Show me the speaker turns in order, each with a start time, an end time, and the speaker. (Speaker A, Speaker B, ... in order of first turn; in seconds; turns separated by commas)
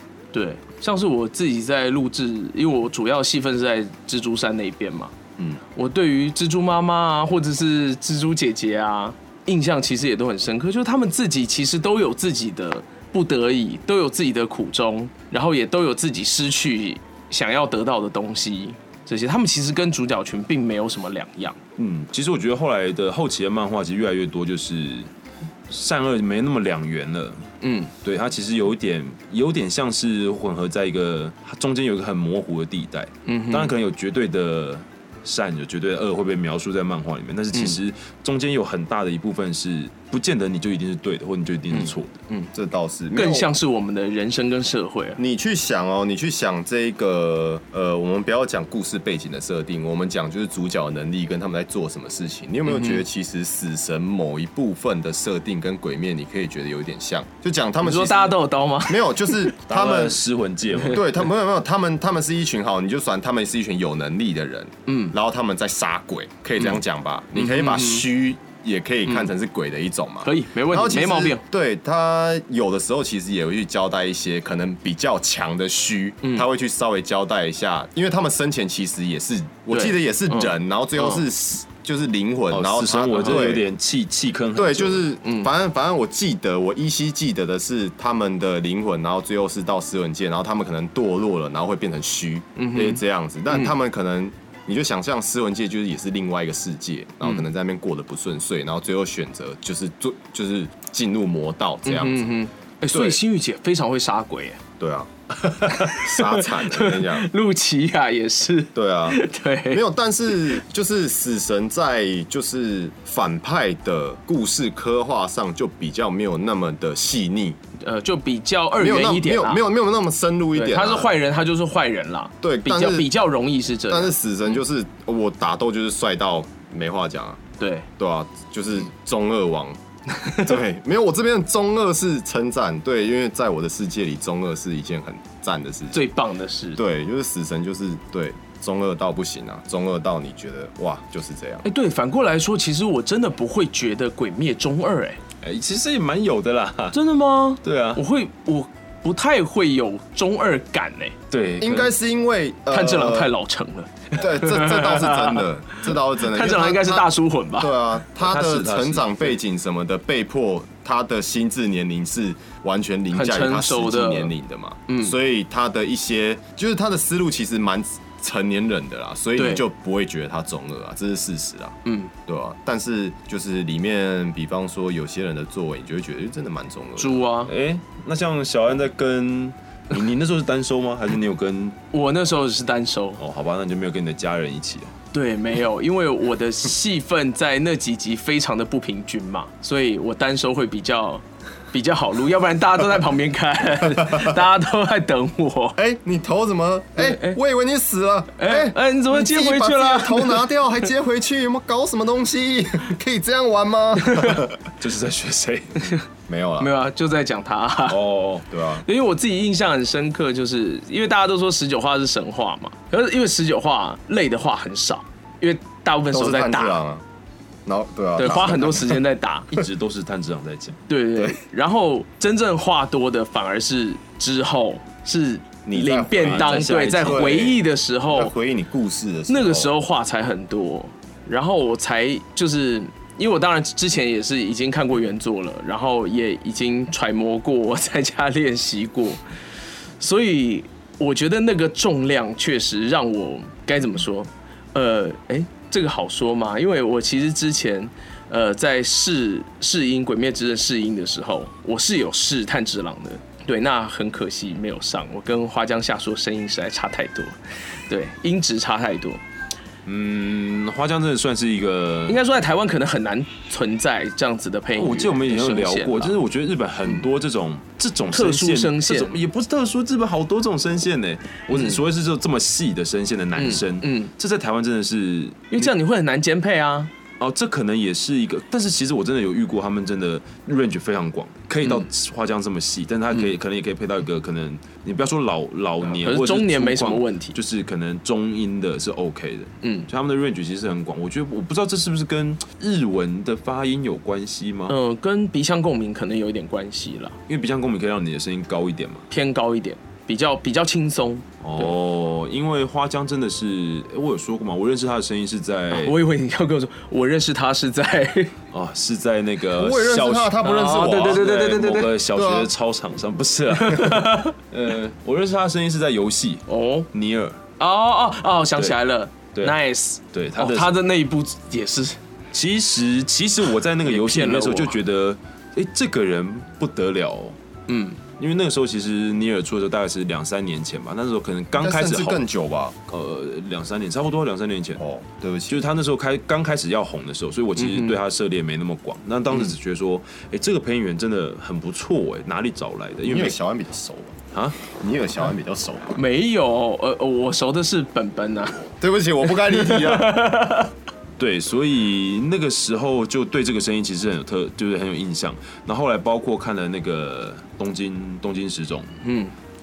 Speaker A: 0.3-5.1, Speaker A: 5.7-21.6, Speaker B: 21.8-25.1, Speaker B: 25.7-27.5, Speaker A: 27.6-27.9, Speaker B: 28.0-42.2, Speaker A: 33.3-33.7, Speaker A: 41.7-42.5, Speaker C: 42.5-43.5, Speaker A: 43.1-45.2, Speaker C: 45.2-60.2, Speaker A: 52.7-53.0, Speaker A: 57.8-59.5, Speaker B: 59.7-61.1, Speaker C: 60.9-83.7, Speaker A: 64.9-65.1, Speaker A: 67.3-68.1, Speaker A: 70.2-71.4, Speaker A: 79.7-81.2, Speaker B: 82.5-85.1, Speaker A: 83.2-83.5, Speaker C: 84.5-102.3, Speaker A: 85.2-85.5, Speaker A: 92.6-93.7, Speaker A: 101.8-104.6, Speaker C: 102.9-103.2, Speaker C: 104.8-105.1, Speaker A: 105.7-109.8, Speaker C: 105.8-107.3, Speaker C: 108.8-117.6, Speaker A: 117.8-119.6, Speaker C: 118.8-121.1, Speaker A: 120.5-124.1, Speaker C: 122.4-123.1, Speaker C: 123.9-127.4, Speaker A: 127.6-127.9, Speaker C: 128.0-136.0, Speaker A: 135.9-136.8, Speaker C: 136.8-141.7, Speaker A: 141.6-145.2, Speaker B: 145.4-147.0, Speaker A: 146.9-151.2, Speaker B: 147.6-148.0, Speaker B: 151.3-151.9, Speaker C: 151.6-153.3, Speaker A: 152.7-157.7, Speaker C: 154.2-177.2, Speaker B: 158.2-159.3, Speaker A: 163.1-164.3, Speaker A: 164.9-165.2, Speaker A: 169.4-169.7, Speaker A: 171.8-172.1, Speaker A: 177.0-177.5, Speaker B: 177.5-181.8, Speaker A: 181.9-183.2, Speaker B: 183.2-184.9, Speaker A: 185.1-195.8, Speaker C: 195.8-204.6, Speaker A: 197.0-197.4, Speaker A: 198.4-200.4, Speaker A: 204.0-204.4, Speaker B: 204.8-206.0, Speaker C: 206.3-206.7, Speaker A: 206.6-208.0, Speaker B: 207.9-208.4, Speaker C: 208.5-208.8, Speaker A: 208.8-216.8, Speaker C: 216.1-217.1, Speaker C: 217.7-219.0, Speaker A: 218.2-219.5, Speaker B: 219.5-220.8, Speaker A: 220.9-228.3, Speaker C: 225.7-229.7, Speaker B: 226.2-227.5, Speaker A: 229.3-239.2, Speaker A: 240.0-259.2, Speaker B: 259.9-262.2, Speaker A: 262.1-266.2, Speaker B: 264.8-275.7, Speaker A: 268.1-269.2, Speaker A: 271.5-271.8, Speaker A: 273.4-274.1, Speaker A: 275.5-276.9, Speaker B: 277.2-294.8, Speaker A: 285.8-287.4, Speaker A: 289.6-289.9, Speaker A: 294.7-297.2, Speaker B: 297.3-299.1, Speaker A: 299.1-301.8, Speaker B: 301.4-306.0, Speaker A: 305.7-308.3, Speaker B: 308.5-317.4, Speaker C: 309.6-311.3, Speaker A: 310.4-311.9, Speaker C: 312.1-312.5, Speaker A: 313.5-314.4, Speaker A: 316.5-316.9, Speaker A: 317.6-322.0, Speaker B: 320.1-320.8, Speaker B: 322.3-327.4, Speaker A: 323.9-324.8, Speaker A: 327.7-328.0, Speaker B: 328.2-332.2, Speaker C: 331.6-332.8, Speaker B: 332.9-334.8, Speaker C: 334.8-335.6, Speaker B: 335.5-343.4, Speaker A: 337.6-338.0, Speaker C: 343.1-346.0, Speaker B: 344.3-344.6, Speaker A: 345.9-348.6, Speaker C: 348.8-350.2, Speaker A: 349.3-350.7, Speaker B: 351.2-358.9, Speaker A: 359.0-359.3